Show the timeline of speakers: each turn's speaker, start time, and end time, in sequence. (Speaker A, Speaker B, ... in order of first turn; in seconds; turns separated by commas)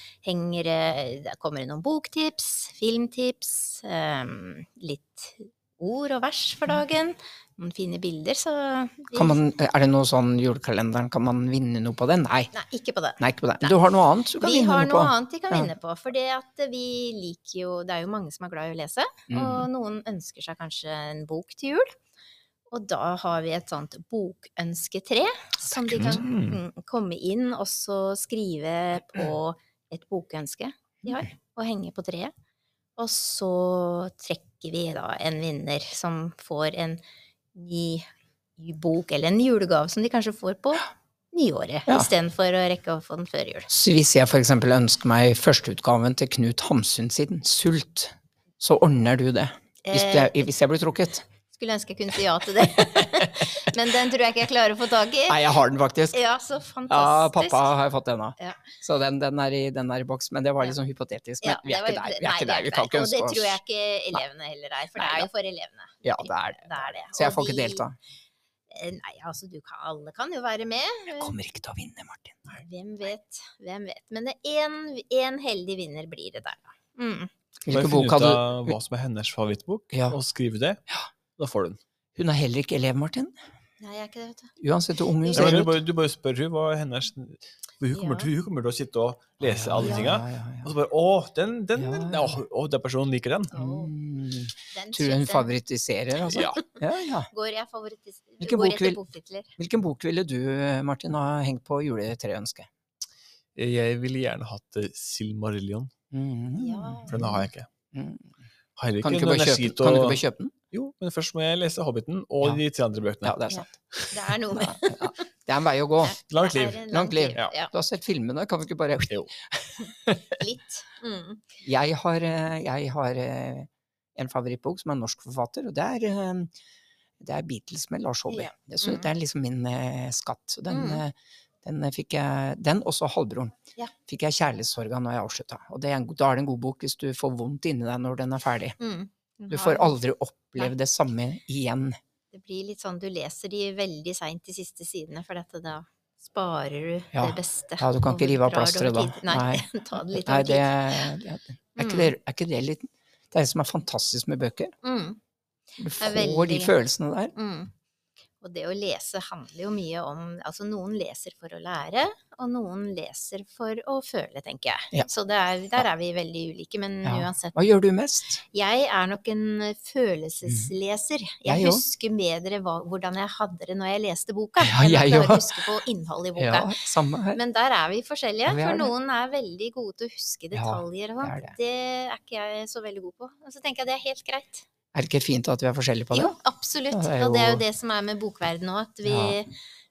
Speaker A: 0.2-9.4, Speaker B: 9.1-12.5, Speaker A: 12.5-13.8, Speaker B: 13.2-15.7, Speaker A: 14.4-21.9, Speaker B: 19.3-19.7, Speaker A: 22.7-32.3, Speaker B: 25.9-26.2, Speaker C: 25.9-26.6, Speaker A: 33.0-37.0, Speaker A: 37.5-43.7, Speaker B: 43.7-51.2, Speaker A: 49.8-50.4, Speaker A: 51.5-55.4, Speaker B: 52.8-53.5, Speaker B: 55.2-56.2, Speaker A: 56.1-57.7, Speaker B: 56.9-63.6, Speaker A: 58.4-58.7, Speaker A: 61.4-67.8, Speaker B: 65.0-65.3, Speaker B: 66.0-68.0, Speaker A: 68.7-71.3, Speaker B: 71.1-72.4, Speaker A: 72.6-77.3, Speaker B: 77.6-78.8, Speaker C: 77.7-80.8, Speaker B: 79.9-80.2, Speaker C: 81.4-81.8, Speaker B: 82.2-83.3, Speaker A: 83.8-84.5, Speaker B: 84.6-85.8, Speaker A: 85.2-85.6, Speaker C: 85.3-93.5, Speaker A: 87.9-88.3, Speaker B: 89.4-90.7, Speaker A: 89.8-90.2, Speaker B: 91.8-92.4, Speaker A: 93.5-93.9, Speaker B: 93.5-97.3, Speaker A: 94.7-95.5, Speaker C: 96.3-96.6, Speaker A: 97.3-99.5, Speaker B: 98.4-99.0, Speaker B: 99.6-102.7, Speaker C: 103.5-105.9, Speaker B: 106.1-108.3, Speaker A: 106.5-107.5, Speaker C: 107.1-107.7, Speaker C: 108.8-110.2, Speaker B: 109.0-110.5, Speaker C: 110.7-113.4, Speaker B: 113.2-113.7, Speaker A: 113.5-115.3, Speaker B: 114.5-116.2, Speaker A: 116.0-117.7, Speaker C: 116.3-116.8, Speaker B: 116.9-120.4, Speaker A: 120.3-121.4, Speaker B: 121.6-126.5, Speaker B: 127.2-133.5, Speaker A: 128.3-129.1, Speaker A: 130.7-131.0, Speaker B: 134.1-138.8, Speaker A: 138.8-139.9, Speaker B: 139.5-142.0, Speaker A: 142.3-151.1, Speaker B: 147.1-154.7, Speaker A: 151.8-152.1, Speaker A: 154.8-155.2, Speaker B: 155.8-157.3, Speaker A: 156.0-156.8, Speaker A: 157.3-157.7, Speaker A: 158.4-167.5, Speaker B: 167.0-168.4, Speaker A: 168.5-176.8, Speaker B: 170.5-170.7, Speaker B: 171.4-171.8, Speaker B: 174.6-175.7, Speaker B: 176.3-177.4, Speaker A: 177.3-184.7, Speaker B: 178.4-178.9, Speaker B: 180.5-181.5, Speaker B: 184.9-186.3, Speaker A: 186.1-189.5, Speaker B: 186.9-187.6, Speaker B: 189.0-189.4